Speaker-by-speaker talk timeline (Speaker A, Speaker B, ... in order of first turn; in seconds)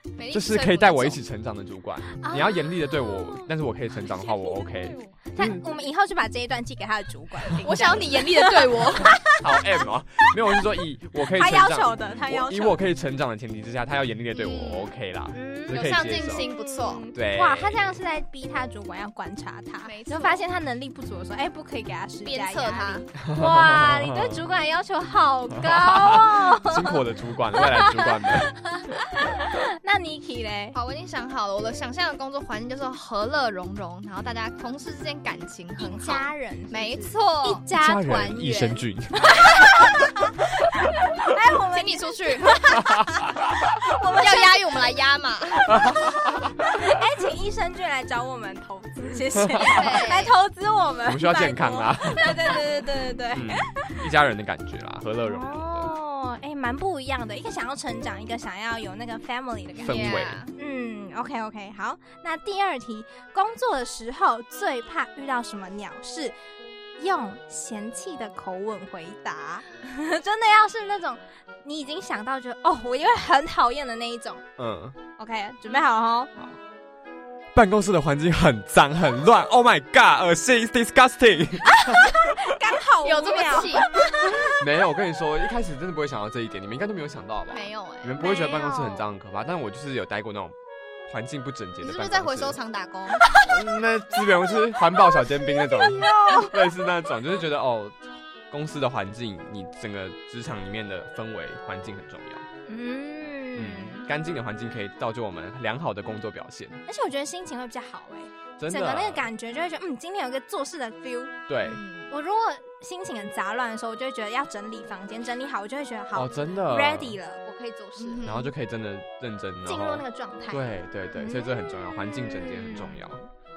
Speaker A: 0.2-1.2, 4.3-5.1, 7.6-9.1, 14.3-14.9, 15.7-17.1, 19.8-20.4, 22.2-23.1, 30.7-37.6, 41.7-42.7, 44.0-45.7, 49.6-50.3, 59.8-60.5, 83.0-83.9, 87.5-88.2, 91.8-93.2, 111.6-112.1, 118.0-118.5
Speaker B: 0.3-5.6, 9.4-16.4, 17.1-17.9, 23.2-24.4, 25.6-28.5, 37.7-39.8, 45.7-46.5, 49.4-49.8, 51.0-52.6, 53.3-55.9, 59.8-60.4, 74.6-75.0, 77.5-82.3, 84.4-90.5, 91.1-92.6, 93.3-98.0, 98.5-102.5, 103.5-106.8, 108.6-109.3, 111.5-111.8, 116.1-117.2, 118.2-123.2
Speaker C: 2.2-3.5, 5.3-9.4, 11.3-12.8, 15.3-27.0, 27.6-30.8, 35.8-44.7, 46.6-54.0, 55.2-66.3, 67.0-74.4, 75.2-76.3, 81.7-83.9, 88.2-89.1, 95.6-96.6, 102.7-104.1, 106.9-111.3, 112.1-118.3, 119.6-120.6, 121.2-121.5, 122.3-123.1